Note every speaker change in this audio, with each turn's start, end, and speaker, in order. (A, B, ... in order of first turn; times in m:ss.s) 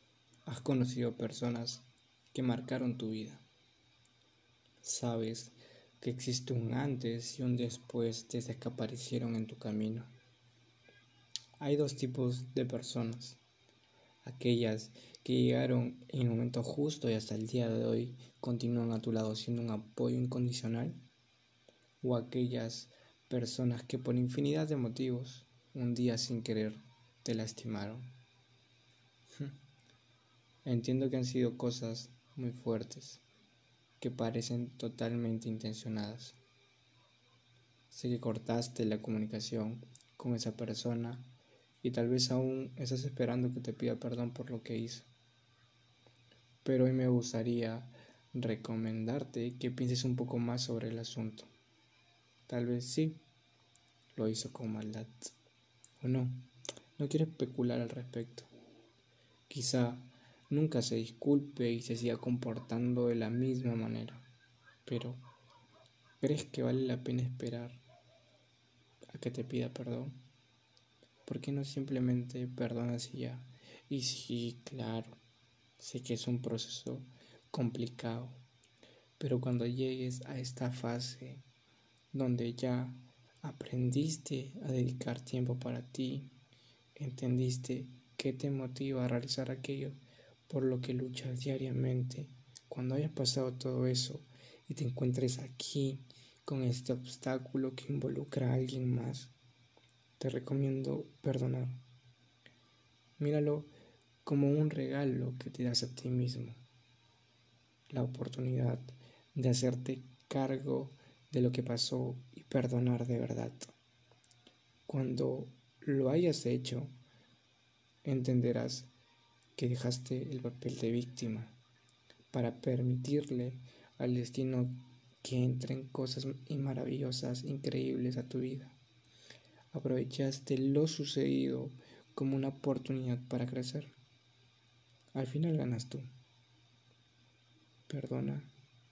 0:00.4-0:03.4 A
0:04.8-0:10.1 A
0:11.6-0:13.4 A
0:14.2-0:21.0 A
0:22.0-0:28.1 A
0:30.6-0:33.2 A
0:34.0-0:36.4 A
0:37.9-0:45.1 A
0:46.6-0:51.5 A
0:52.5-0:53.2 A
0:54.1-0:55.3 A
0:56.0-0:58.5 A
0:59.5-1:04.2 A
1:04.8-1:05.2 A
1:06.2-1:07.8 A
1:09.1-1:10.2 A
1:11.2-1:15.2 A
1:15.8-1:18.4 A
1:19.2-1:21.4 A
1:22.1-1:26.3 A
1:27.0-1:39.3 A
1:40.2-1:41.8 A
1:43.2-1:43.7 A
1:44.2-1:46.6 A
1:47.9-1:53.7 A
1:54.9-1:57.0 A
1:58.0-1:58.9 A
1:59.5-2:01.6 A
2:02.3-2:08.8 A
2:09.7-2:13.9 A
2:15.1-2:16.1 A
2:17.9-2:18.5 A